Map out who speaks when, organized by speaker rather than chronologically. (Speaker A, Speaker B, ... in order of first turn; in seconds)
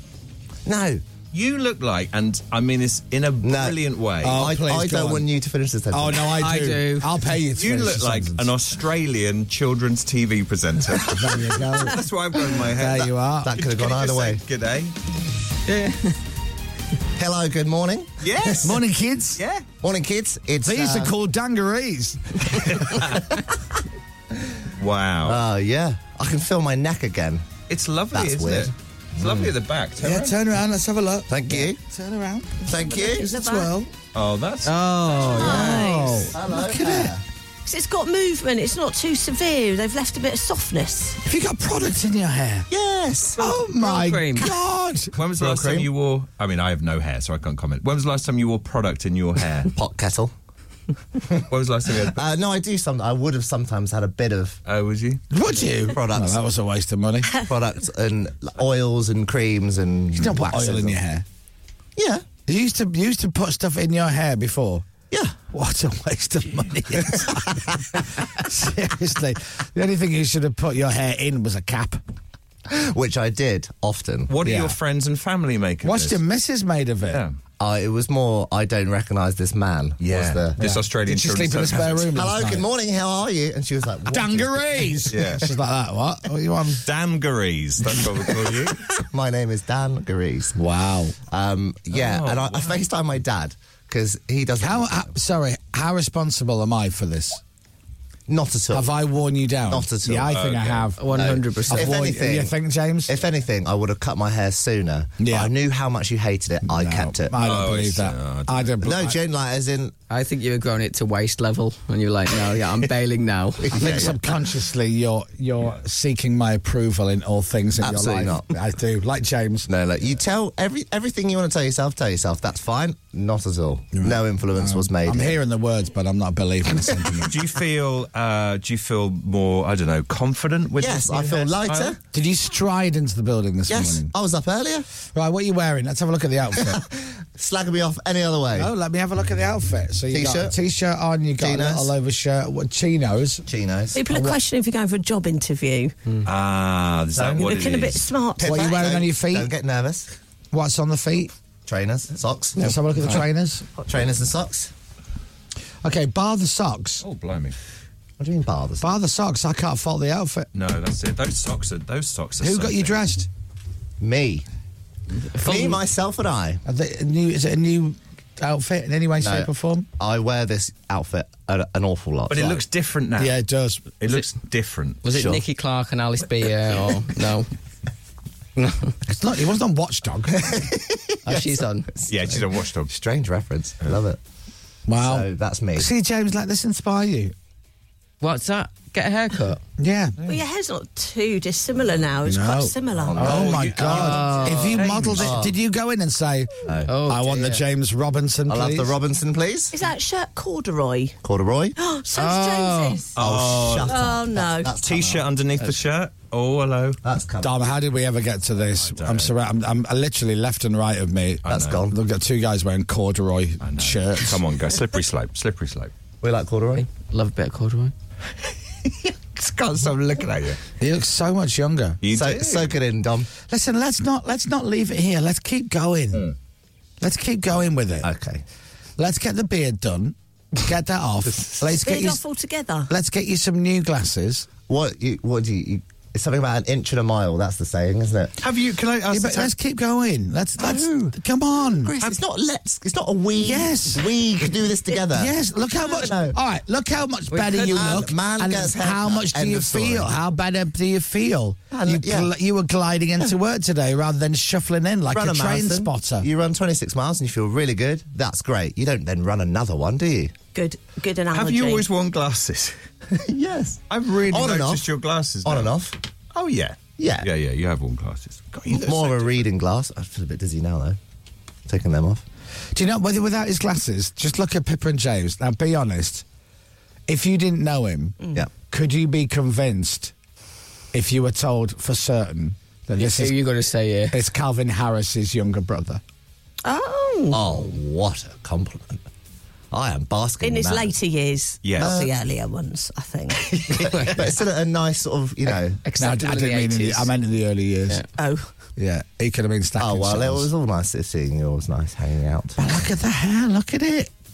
Speaker A: 0.7-1.0, 3.4-6.4, 13.4-14.4, 17.2-18.8, 19.8-21.1, 25.2-27.5, 28.1-28.7, 31.3-31.8, 32.7-33.3, 35.3-37.2, 42.7-43.4, 45.4-45.9, 49.7-50.3, 52.0-54.6, 55.9-56.4, 57.4-61.0, 62.0-62.2, 65.1-65.4, 67.2-68.0, 72.7-74.3, 77.6-80.5, 82.1-85.3, 88.0-90.6, 91.3-95.1, 98.3-98.9, 99.7-100.3, 101.1-102.5, 103.1-107.3, 108.8-109.9, 113.6-114.3, 117.8-118.5, 119.7-125.4, 130.8-132.0, 133.7-134.8, 136.6-138.7, 140.1-140.5, 141.4-141.9, 143.5-143.9, 147.1-147.8, 148.4-150.1, 151.7-152.6, 153.8-154.7, 158.2-158.9, 164.0-164.4, 165.4-166.6, 169.2-172.6, 180.3-184.2, 184.9-185.9, 193.0-195.5, 196.6-196.9, 198.5-199.7, 201.2-201.8, 203.2-205.2, 207.0-207.5, 211.5-211.9, 216.2-216.8, 222.1-223.3, 228.0-228.4, 231.2-231.6, 234.7-238.3, 241.9-246.4, 247.7-250.1, 251.7-252.3, 255.1-260.3, 263.1-264.9, 265.4-265.9, 267.0-267.3, 268.7-271.0, 271.7-272.2, 287.3-289.0, 289.7-290.9, 291.8-292.1, 293.6-295.8, 299.8-302.6
Speaker B: 1.3-4.4, 7.5-14.9, 18.2-18.8, 19.4-19.6, 22.7-23.2, 24.8-25.4, 27.7-30.4, 34.1-35.3, 45.1-49.7, 51.5-52.2, 54.6-55.2, 74.3-76.2, 77.1-77.3, 80.0-82.1, 85.1-85.5, 86.8-88.8, 91.9-92.8, 100.3-100.9, 107.4-109.1, 127.2-131.9, 146.2-148.1, 157.0-157.6, 160.5-163.0, 172.3-173.4, 174.0-175.3, 182.1-182.9, 194.7-195.3, 203.1-203.9, 204.8-207.0, 208.8-209.3, 211.4-211.8, 213.6-215.9, 218.8-220.6, 222.0-222.7, 238.4-239.5, 240.6-241.1, 261.3-262.8, 263.9-265.7, 266.3-269.4, 291.6-292.0
Speaker C: 4.2-5.3, 5.9-8.5, 11.0-12.0, 12.5-13.6, 18.6-19.4, 20.6-22.6, 30.0-33.9, 35.4-37.2, 41.2-42.7, 43.4-45.1, 55.3-57.3, 60.1-61.2, 62.5-64.8, 65.5-72.0, 74.4-74.8, 75.8-77.2, 80.6-82.7, 84.0-86.8, 90.5-91.2, 94.6-97.4, 98.7-101.1, 101.7-103.1, 105.2-105.5, 106.6-109.2, 113.7-119.7, 123.9-127.4, 132.1-134.1, 135.1-136.8, 138.5-143.4, 144.0-144.4, 148.4-149.5, 150.5-151.3, 152.6-153.6, 155.8-157.0, 158.8-160.5, 162.4-163.3, 166.7-169.9, 173.2-173.9, 179.1-180.6, 184.9-187.3, 189.8-190.2, 192.2-199.0, 202.1-203.0, 207.4-214.4, 220.8-222.0, 223.5-226.3, 227.0-228.1, 229.0-232.2, 232.9-234.5, 239.1-241.9, 243.4-244.1, 245.1-256.3, 272.7-276.2, 277.1-278.2, 278.7-280.1, 280.9-283.4, 284.1-286.0, 296.0-298.0, 298.8-300.5, 302.6-304.1
Speaker D: 6.4-7.1, 15.7-16.2, 34.6-35.8, 43.4-44.5, 101.0-102.1, 110.1-114.0, 152.6-153.2, 165.3-165.8, 175.0-177.5, 178.6-178.9, 181.2-181.9, 188.2-189.6, 193.3-194.8, 196.8-197.6, 216.8-217.9, 247.3-248.0, 283.0-284.2, 293.8-294.1, 295.8-297.1
Speaker E: 32.7-33.7, 35.2-36.3, 37.6-41.2, 143.9-145.9, 147.4-148.6, 190.3-193.5, 199.7-201.2, 201.8-203.2, 203.9-204.7, 231.7-232.9, 260.5-261.9, 286.6-287.5, 290.4-293.6, 298.2-298.5